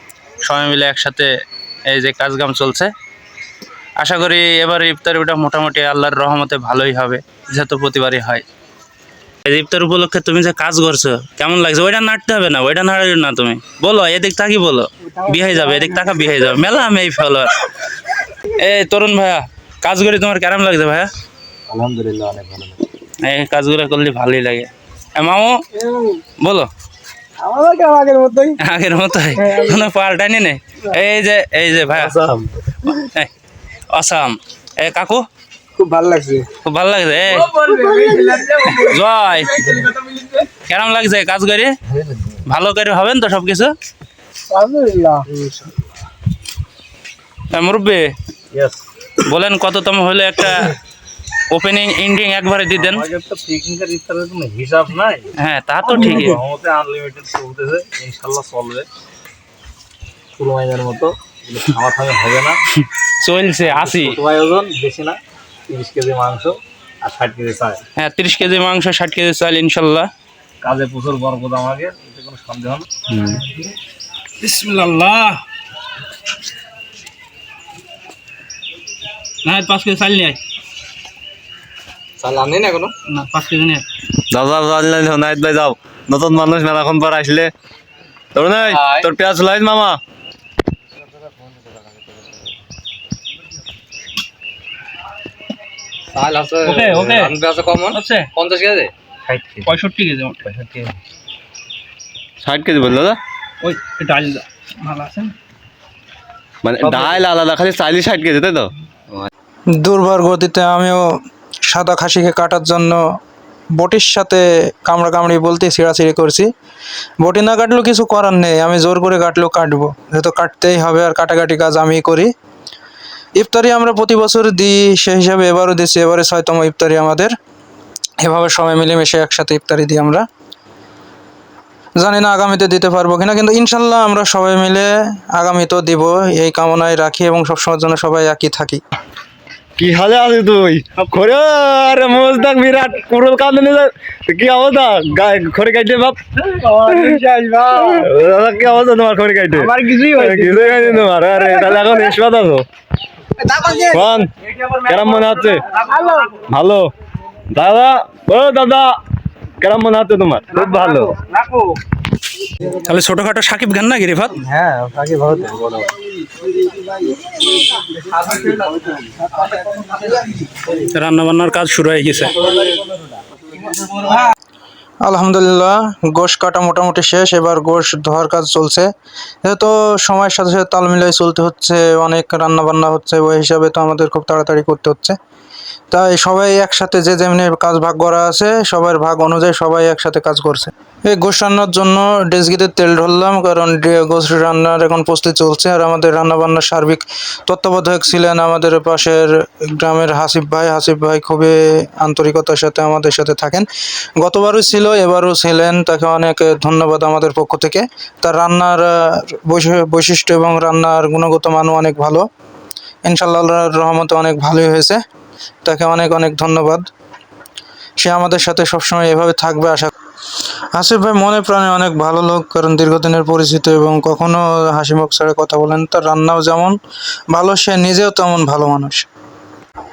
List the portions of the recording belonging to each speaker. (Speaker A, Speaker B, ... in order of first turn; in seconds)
Speaker A: 0.4-1.3, 1.9-2.9, 4.0-8.4, 9.4-17.7, 18.4-21.1, 23.2-25.6, 26.4-26.7, 28.6-32.1, 32.8-33.3, 33.9-35.2, 36.6-37.5, 38.7-39.7, 40.6-41.7, 42.5-43.7, 47.5-48.1, 49.2-50.7, 51.5-53.0, 55.4-56.4, 62.8-64.2, 68.0-70.1, 74.4-75.4, 79.4-80.4, 83.1-83.8, 96.6-98.3, 99.6-100.4, 103.6-105.3, 106.8-107.2, 161.3-161.6, 162.7-164.4, 170.7-172.4
Speaker B: 21.7-22.8, 32.0-32.5, 41.9-42.3, 48.5-48.8, 52.7-55.3, 55.8-58.9, 60.4-62.6, 63.6-67.8, 70.6-72.8, 99.3-99.7, 100.5-100.9, 164.4-165.9, 168.3-168.6, 172.5-172.8
Speaker C: 27.4-28.6, 35.8-36.4, 37.6-38.7, 39.7-40.3, 44.5-45.5, 82.2-82.9, 88.7-89.1, 96.1-98.9, 146.9-148.0, 149.6-150.5, 153.4-153.9, 155.9-156.4
Speaker D: 73.1-73.4, 84.3-87.5, 88.3-90.0, 102.4-103.2, 106.6-108.7, 139.8-147.2, 147.9-152.6, 153.9-154.3, 154.8-155.6, 156.5-156.9, 157.5-158.9, 159.6-161.1
Speaker E: 109.8-111.0, 111.7-113.0, 113.8-116.5, 117.2-122.3, 123.4-127.3, 128.2-130.2, 132.0-138.8, 175.0-178.9, 179.4-185.2, 185.9-203.7, 204.2-212.2, 213.1-215.0, 215.6-216.9, 218.0-219.9, 220.7-226.7, 227.3-229.1